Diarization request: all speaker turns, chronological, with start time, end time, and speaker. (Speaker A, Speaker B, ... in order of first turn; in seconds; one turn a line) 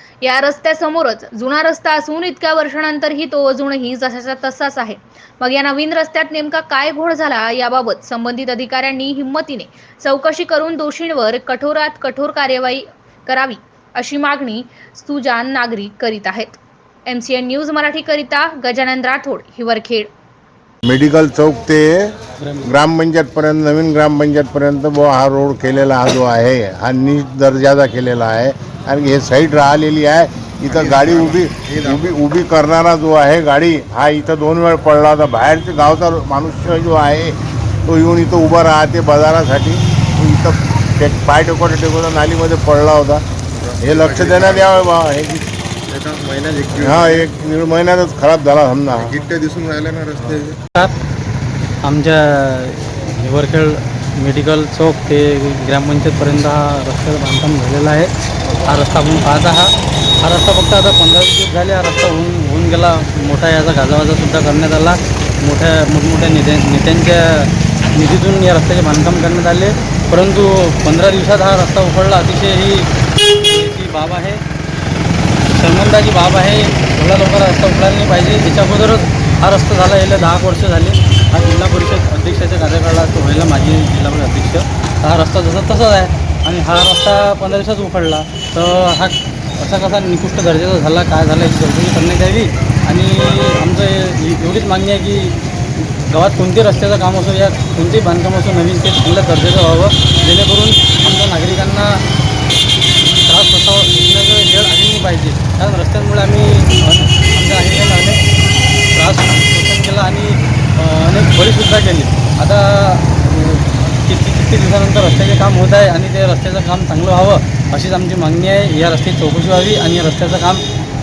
Speaker A: 0.2-20.1
Speaker B: 20.8-43.2
Speaker C: 22.4-22.7
Speaker D: 30.7-32.1
Speaker D: 43.5-44.8
Speaker B: 43.8-45.4
Speaker D: 45.9-47.3
Speaker B: 46.8-49.1
Speaker D: 48.9-50.6
Speaker C: 51.8-58.1
Speaker C: 58.6-72.9
Speaker C: 73.4-74.4
Speaker C: 75.5-102.0
Speaker C: 103.2-108.2
Speaker C: 108.9-120.6